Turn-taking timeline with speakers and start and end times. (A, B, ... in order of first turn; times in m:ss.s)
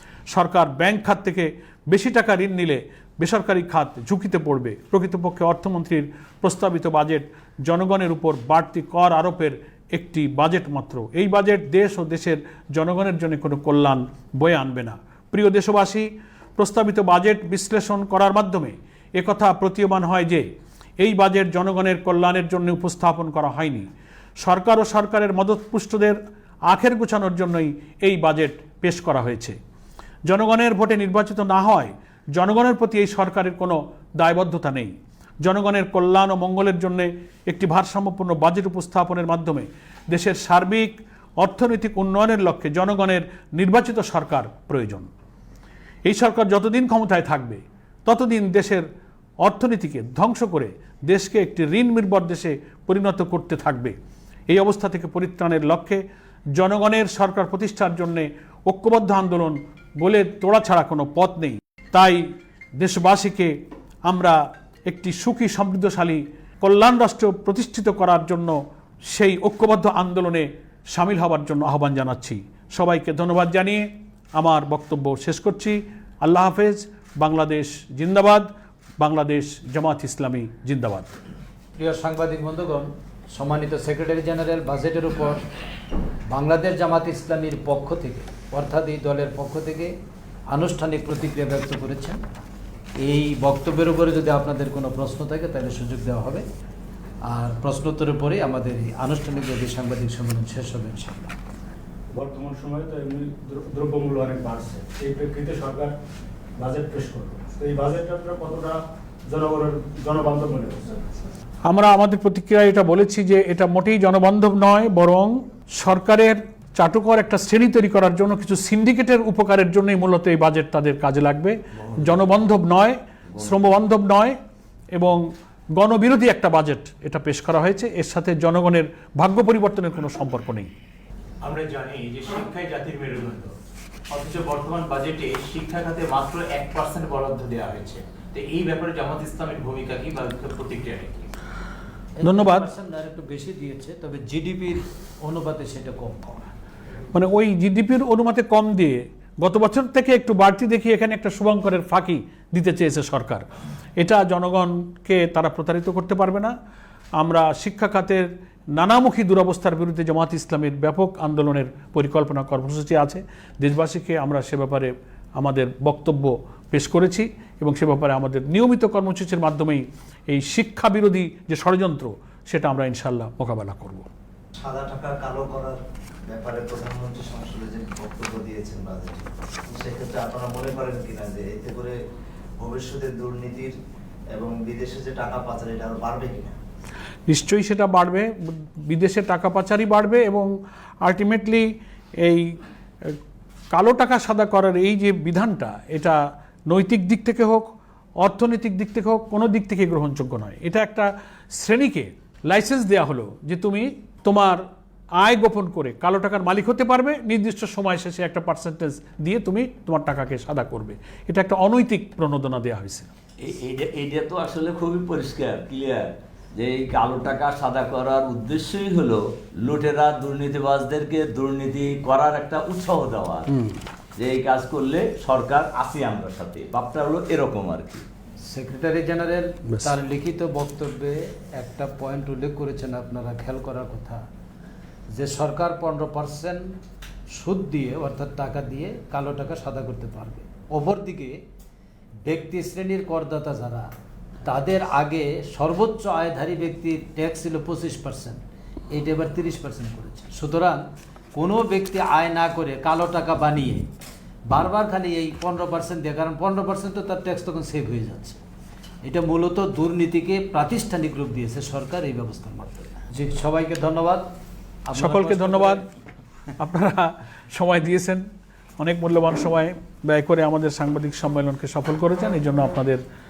0:00.3-0:20.4 A
0:21.0-0:26.2 A
0:26.7-0:29.6 A
0:30.3-0:34.9 A
0:35.4-0:45.1 A
0:46.1-0:48.8 A
0:49.4-0:54.0 A
0:54.5-0:56.0 A
0:56.6-1:02.3 A
1:02.8-1:03.5 A
1:04.1-1:18.5 A
1:19.0-1:21.1 A
1:21.8-1:25.4 B
1:26.3-1:29.9 B
1:30.5-1:32.2 B
1:33.0-1:36.4 B
1:37.3-1:41.3 B
1:42.2-1:43.0 C
1:43.8-1:45.8 C
1:46.6-1:48.8 C
1:49.3-1:50.9 C
1:51.6-2:04.4 A
2:04.9-2:10.7 A
2:11.4-2:13.6 D
2:14.1-2:21.3 D
2:22.2-2:26.4 B
2:22.2-2:22.7 A
2:27.1-2:33.4 A
2:34.0-2:36.5 A
2:37.2-2:54.1 A
2:54.6-3:02.0 E
3:02.6-3:03.7 E
3:04.3-3:06.6 E
3:07.3-3:10.5 A
3:11.0-3:11.7 A
3:12.2-3:13.2 A
3:13.7-3:24.6 A
3:25.2-3:33.1 A
3:33.4-3:43.5 F
3:43.5-3:43.8 A
3:44.2-3:48.1 F
3:48.5-3:54.2 B
3:55.2-3:56.6 B
3:57.3-4:01.4 B
4:02.3-4:03.9 B
4:04.4-4:08.4 B
4:08.9-4:10.8 B
4:11.4-4:13.9 B
4:14.5-4:18.4 B
4:19.0-4:24.2 B
4:24.9-4:25.8 B
4:25.0-4:25.8 A
4:26.6-4:28.2 A
4:28.8-4:33.0 A